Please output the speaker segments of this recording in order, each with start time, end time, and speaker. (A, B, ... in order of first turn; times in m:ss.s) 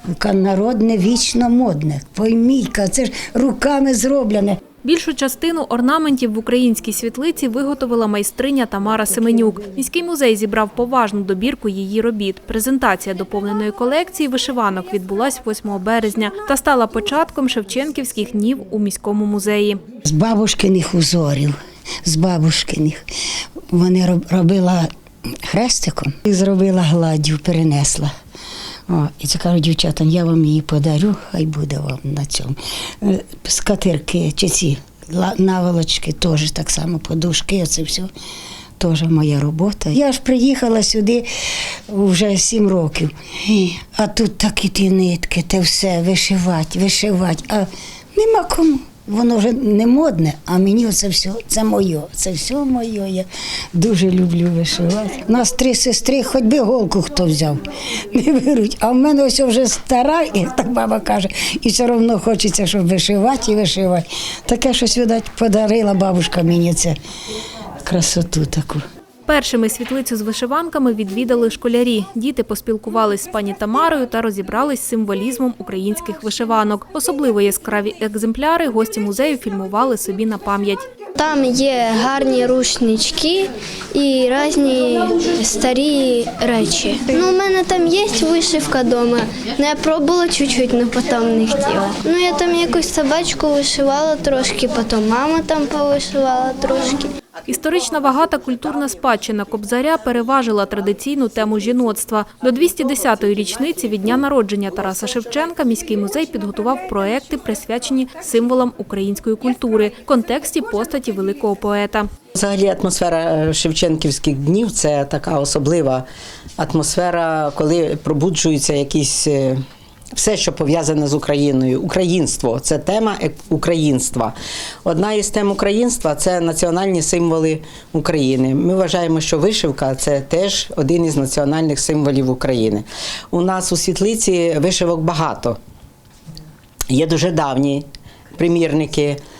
0:00.2-0:04.6 A
0:04.8-0:19.8 B
0:20.0-0:23.0 A
0:23.7-0:24.9 A
0:25.5-0:28.1 A
0:28.9-0:38.1 A
0:38.8-0:41.3 A
0:41.9-0:57.6 A
0:58.1-1:06.9 A
1:07.8-1:08.8 A
1:09.3-1:20.8 B
1:21.1-1:37.1 C
1:37.5-1:52.1 B
1:52.3-1:56.0 D
1:56.6-1:59.6 D
2:00.1-2:15.6 D
2:16.9-2:19.2 D